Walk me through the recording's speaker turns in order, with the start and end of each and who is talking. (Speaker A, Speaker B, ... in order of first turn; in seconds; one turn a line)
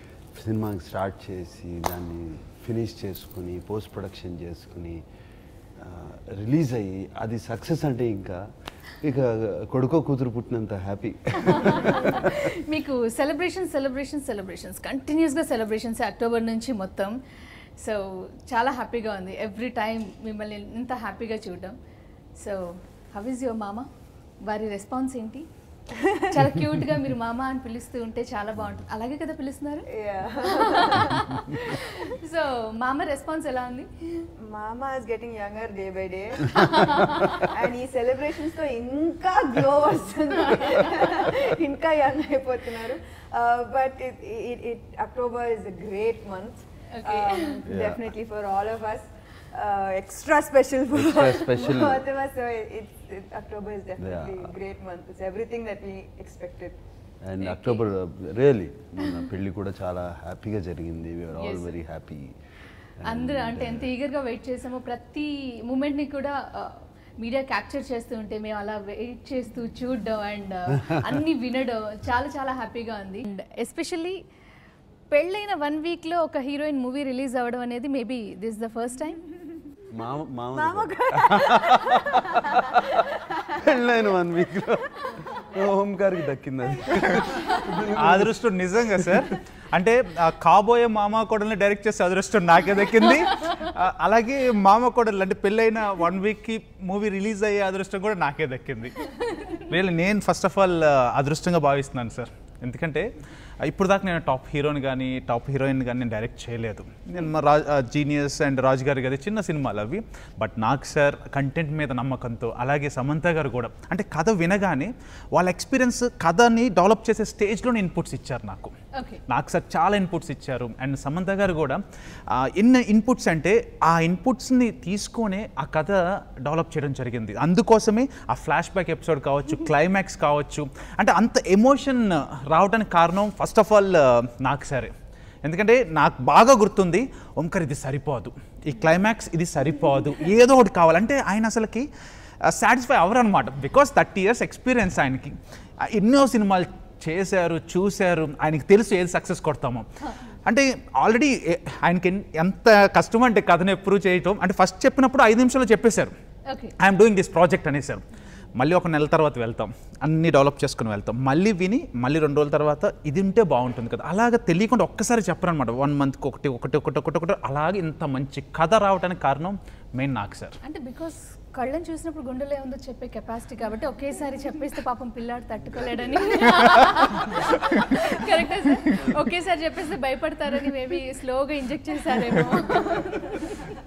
Speaker A: 0.3-5.0
Speaker A: 5.8-8.5
Speaker A: 9.0-12.5
Speaker B: 11.4-17.1
Speaker B: 17.8-21.8
Speaker B: 22.4-23.9
Speaker B: 24.4-25.5
Speaker B: 26.2-29.9
Speaker C: 29.9-31.4
Speaker B: 30.4-34.3
Speaker C: 34.4-56.8
Speaker B: 36.5-37.4
Speaker B: 46.9-47.6
Speaker A: 47.6-48.1
Speaker A: 50.9-52.0
Speaker A: 54.0-54.5
Speaker A: 57.2-62.4
Speaker B: 57.4-57.8
Speaker B: 61.4-61.7
Speaker A: 63.0-63.9
Speaker B: 63.0-74.2
Speaker B: 75.1-79.2
Speaker A: 79.9-83.0
Speaker C: 80.5-83.7
Speaker A: 83.5-89.3
Speaker D: 88.0-103.1
Speaker D: 103.6-118.7
Speaker B: 119.0-119.2
Speaker D: 119.3-134.9
Speaker D: 135.4-141.9
Speaker D: 142.4-149.9
Speaker D: 150.5-156.1
Speaker B: 156.5-156.7
Speaker D: 156.8-158.0
Speaker D: 158.6-170.6
Speaker B: 170.6-183.6